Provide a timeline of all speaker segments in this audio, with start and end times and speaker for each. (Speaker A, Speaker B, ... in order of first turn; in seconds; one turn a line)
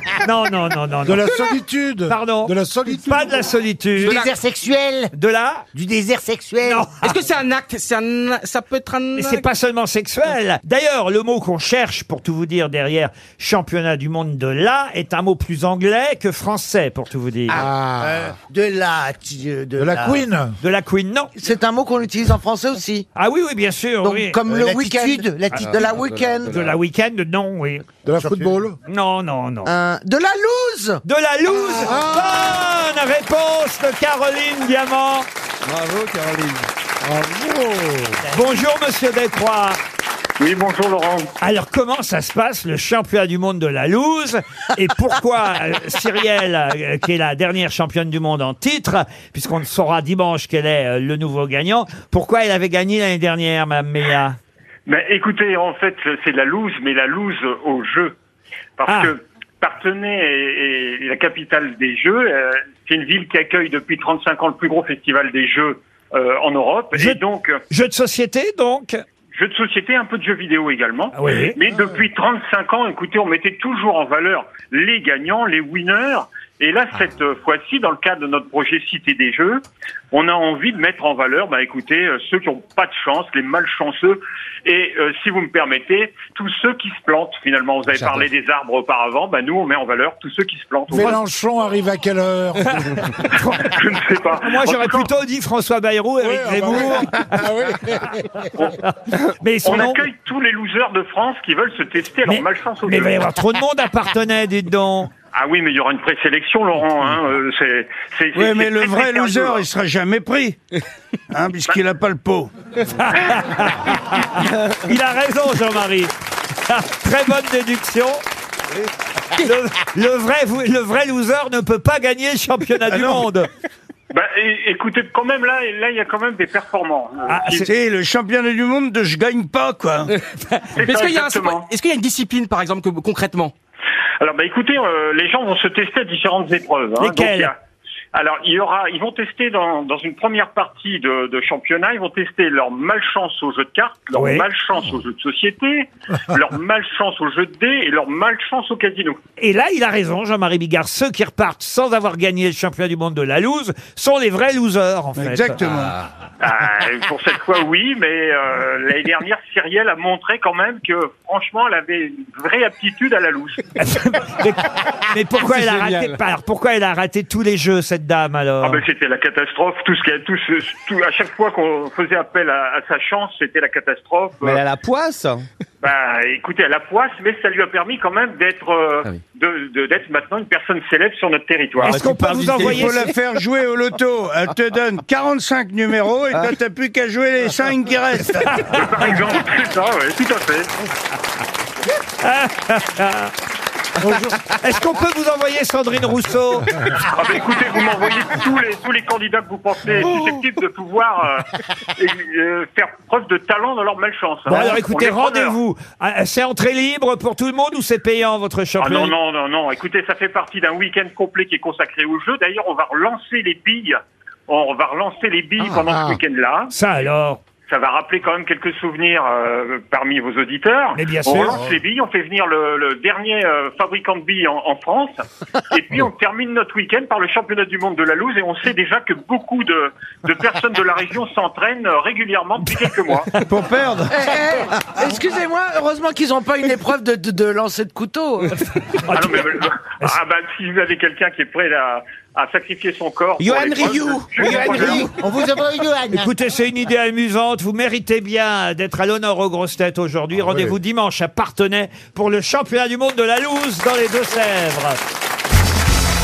Speaker A: 0.2-1.3
Speaker B: 1.1-3.5
Speaker A: 2.1-4.2
Speaker C: 4.0-5.1
Speaker D: 4.0-4.3
Speaker A: 5.1-5.7
Speaker C: 5.7-6.9
Speaker A: 6.6-7.2
Speaker D: 7.0-9.5
Speaker A: 9.2-17.6
Speaker B: 17.5-18.3
Speaker C: 18.0-20.3
Speaker B: 19.8-20.6
Speaker A: 20.6-21.3
Speaker E: 21.4-23.1
Speaker A: 23.1-24.4
Speaker E: 24.0-26.6
Speaker C: 24.4-25.9
Speaker A: 25.5-25.9
Speaker D: 25.8-26.7
Speaker A: 26.4-27.9
Speaker B: 28.1-28.8
Speaker C: 28.1-28.6
Speaker A: 28.9-29.7
Speaker E: 29.6-31.0
Speaker A: 31.0-35.3
Speaker B: 31.8-32.4
Speaker B: 37.0-38.2
Speaker A: 38.3-39.8
Speaker F: 40.4-41.3
Speaker A: 41.4-54.4
Speaker F: 54.9-58.2
Speaker F: 58.8-67.6
Speaker A: 67.7-69.0
Speaker F: 69.3-91.2
Speaker A: 71.1-71.6
Speaker B: 90.9-93.1
Speaker A: 92.9-93.8
Speaker F: 93.7-95.1
Speaker A: 94.4-100.0
Speaker B: 96.2-98.5
Speaker F: 99.6-103.3
Speaker A: 102.3-105.1
Speaker F: 105.3-109.7
Speaker G: 108.3-110.6
Speaker G: 111.3-112.5
Speaker A: 112.9-116.1
Speaker A: 116.7-118.2
Speaker A: 119.4-123.5
Speaker G: 122.9-123.2
Speaker F: 124.1-127.7
Speaker A: 127.3-127.7
Speaker G: 127.7-130.1
Speaker F: 130.8-131.7
Speaker D: 130.8-133.5
Speaker F: 134.2-137.6
Speaker A: 137.0-137.5
Speaker F: 138.1-149.2
Speaker A: 144.2-144.5
Speaker A: 149.4-155.6
Speaker G: 155.2-155.9
Speaker F: 156.4-163.6
Speaker A: 163.8-168.8
Speaker D: 165.5-166.2
Speaker F: 168.6-174.6
Speaker H: 174.4-175.5
Speaker F: 175.8-182.0
Speaker A: 181.8-183.1
Speaker H: 181.9-182.9
Speaker D: 182.4-182.8
Speaker G: 182.6-188.6
Speaker A: 188.4-189.0
Speaker F: 188.7-190.7
Speaker A: 192.2-193.3
Speaker A: 194.2-197.0
Speaker F: 197.0-205.6
Speaker A: 204.5-209.1
Speaker F: 208.8-216.8
Speaker B: 215.7-216.2
Speaker A: 216.7-217.4
Speaker F: 217.7-233.3
Speaker A: 220.9-221.6
Speaker G: 233.5-234.3
Speaker E: 234.1-238.5
Speaker A: 239.0-239.5
Speaker F: 239.1-245.1
Speaker H: 243.4-245.1
Speaker C: 244.5-246.3
Speaker A: 246.1-255.0